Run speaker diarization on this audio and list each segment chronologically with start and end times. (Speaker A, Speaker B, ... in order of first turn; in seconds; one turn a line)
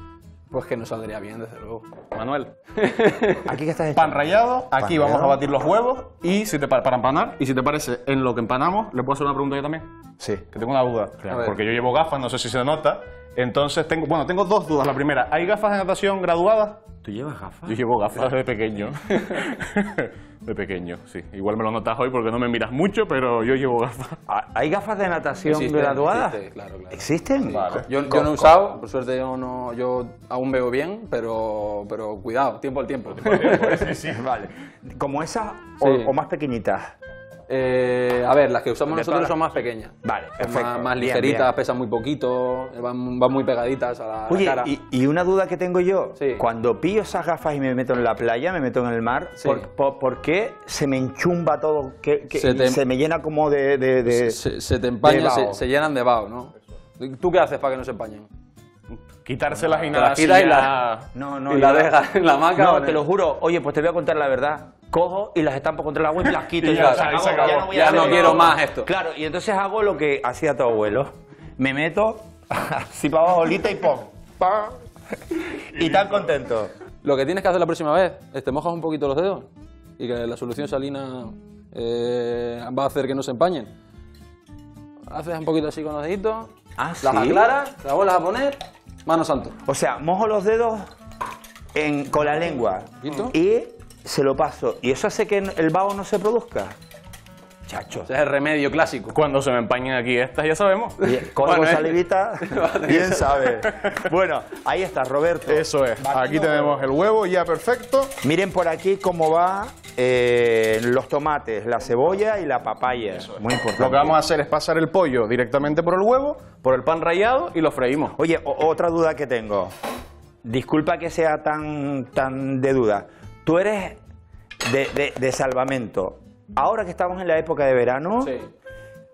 Speaker A: 0.5-1.9
Speaker B: 2.1-2.5
Speaker A: 2.8-3.4
Speaker C: 3.4-5.4
Speaker B: 4.0-9.9
Speaker C: 10.2-10.4
Speaker B: 10.5-16.8
Speaker A: 11.3-11.6
Speaker C: 17.0-18.3
Speaker B: 17.7-24.2
Speaker C: 24.3-26.4
Speaker A: 25.5-34.0
Speaker C: 26.9-28.6
Speaker B: 27.5-27.8
Speaker B: 33.1-34.2
Speaker C: 34.1-36.9
Speaker A: 35.8-36.1
Speaker A: 37.5-44.7
Speaker C: 38.9-39.4
Speaker C: 40.0-41.5
Speaker C: 44.3-54.4
Speaker A: 46.2-46.4
Speaker A: 49.4-49.7
Speaker A: 52.3-52.8
Speaker A: 54.1-58.3
Speaker C: 55.0-55.6
Speaker B: 59.2-61.1
Speaker C: 59.5-59.9
Speaker A: 59.9-60.7
Speaker C: 61.1-62.0
Speaker A: 61.5-63.0
Speaker C: 62.5-74.8
Speaker B: 66.6-68.5
Speaker A: 66.6-68.9
Speaker C: 75.3-76.7
Speaker B: 75.8-76.3
Speaker A: 77.0-83.7
Speaker A: 85.1-86.5
Speaker C: 86.8-87.5
Speaker A: 87.0-89.5
Speaker C: 89.6-90.9
Speaker C: 91.7-96.8
Speaker A: 93.0-93.3
Speaker C: 97.7-98.1
Speaker A: 98.0-99.2
Speaker B: 99.1-101.0
Speaker A: 101.0-103.4
Speaker C: 101.0-106.8
Speaker B: 105.5-108.1
Speaker C: 108.2-114.2
Speaker B: 113.8-118.1
Speaker C: 118.1-119.7
Speaker C: 120.4-124.0
Speaker C: 124.6-128.3
Speaker A: 128.2-128.5